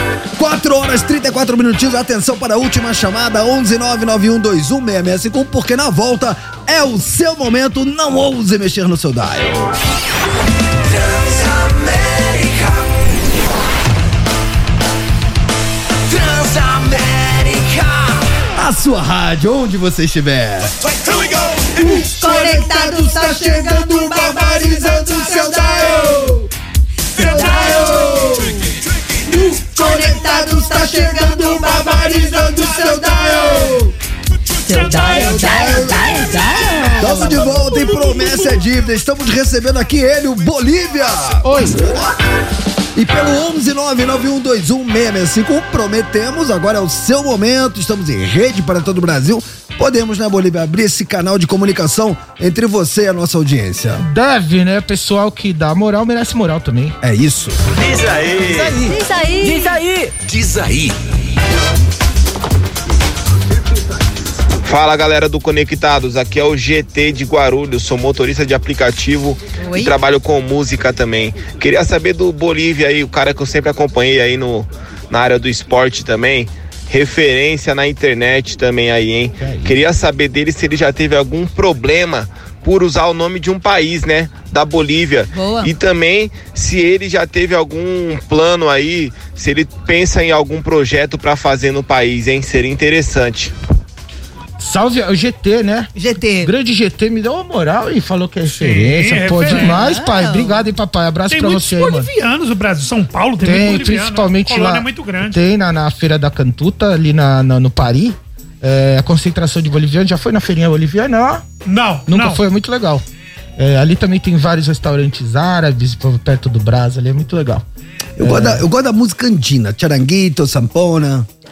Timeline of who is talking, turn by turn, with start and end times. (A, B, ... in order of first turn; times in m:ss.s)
0:00.4-0:09.8 A
0:11.2-0:12.2 B
0:16.3-0:17.8 B
0:18.6-0:20.8 A
0:21.8-0:26.5 A
0:21.8-0:26.1 C
0:27.1-0:28.6 C
0:27.1-0:28.6 A
0:29.3-0:33.9 A
0:29.7-0:33.8 C
0:34.7-0:38.6 C
0:34.9-0:36.1 A
0:37.0-0:42.1 A
0:41.4-0:41.8 D
0:43.0-0:54.0 A
0:54.0-0:57.0 D
0:57.0-0:57.6 A
0:57.8-1:01.0 B
0:58.6-0:59.8 C
1:04.6-1:33.5 E
1:09.6-1:10.0 C
1:19.4-1:19.8 D
1:25.3-1:25.7 C
1:34.6-1:42.1 D
1:36.0-1:36.5 C
1:38.4-1:39.8 F
1:39.4-1:40.7 C
1:41.3-1:45.4 F
1:43.4-1:51.4 D
1:51.6-1:52.4 F
1:52.1-1:53.0 D
1:53.6-1:57.6 D
1:58.2-2:01.3 A
1:58.2-1:58.6 D